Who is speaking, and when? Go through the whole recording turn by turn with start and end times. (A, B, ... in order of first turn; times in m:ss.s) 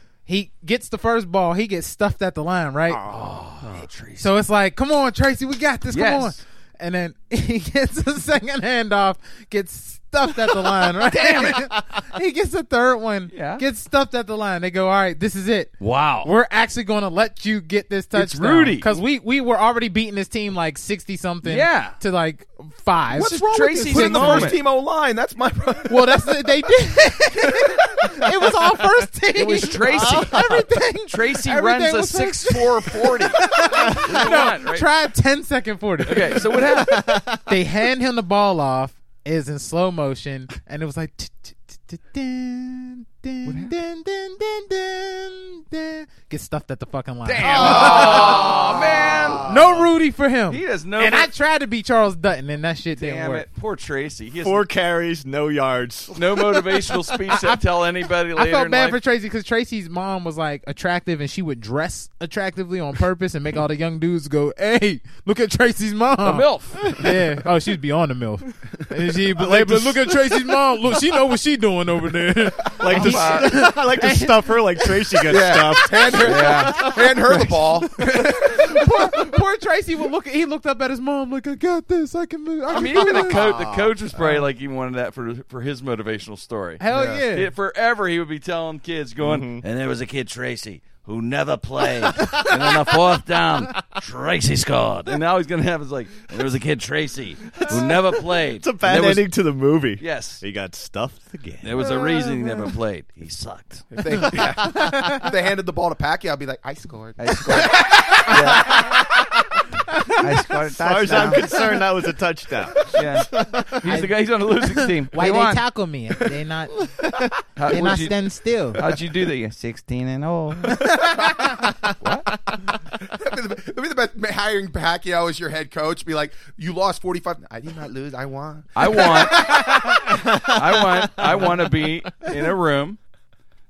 0:00.3-0:03.0 A
0:02.9-0:04.3 B
0:04.2-0:24.6 A
0:05.9-0:06.4 B
0:11.0-0:11.6 B
0:13.3-0:13.6 B
0:15.8-0:16.3 B
0:18.1-0:19.0 B
0:21.4-0:22.0 B
0:23.1-0:24.6 B
0:23.2-0:26.5 C
0:25.8-0:53.4 A
0:27.5-0:28.2 C
0:29.3-0:34.9 B
0:29.9-0:30.5 D
0:36.0-0:37.2 B
0:36.6-0:37.5 D
0:43.4-0:43.7 B
0:47.2-0:49.8 B
0:47.4-0:49.7 D
0:50.5-0:51.3 B
0:53.0-0:54.6 B
0:54.4-0:56.6 D
0:56.1-0:59.0 B
0:57.3-0:57.6 A
0:58.3-1:15.2 A
1:06.2-1:07.0 B
1:12.7-1:16.6 D
1:12.8-1:13.7 B
1:15.3-1:19.1 C
1:16.0-1:23.5 A
1:16.2-1:17.5 B
1:22.7-1:39.3 B
1:22.9-1:23.9 D
1:24.2-1:24.4 A
1:26.8-1:27.5 A
1:26.9-1:27.2 C
1:29.2-1:29.6 D
1:32.1-1:32.9 A
1:37.5-1:41.8 D
1:40.0-1:40.4 B
1:41.6-1:43.9 B
1:41.8-1:42.6 A
1:43.9-1:47.9 C
1:44.3-1:45.2 A
1:47.2-1:48.9 B
1:47.9-1:48.8 A
1:50.2-1:51.6 E
1:50.6-1:53.8 D
1:52.9-1:55.6 B
1:53.8-1:56.8 A
1:57.6-1:58.2 B
1:57.6-1:58.8 A
1:58.7-1:59.5 B
1:59.4-2:00.9 E
2:00.8-2:01.5 A
2:02.0-2:02.3 B
2:02.8-2:09.5 C
2:08.7-2:09.8 B
2:09.3-2:10.0 A
2:10.4-2:13.0 B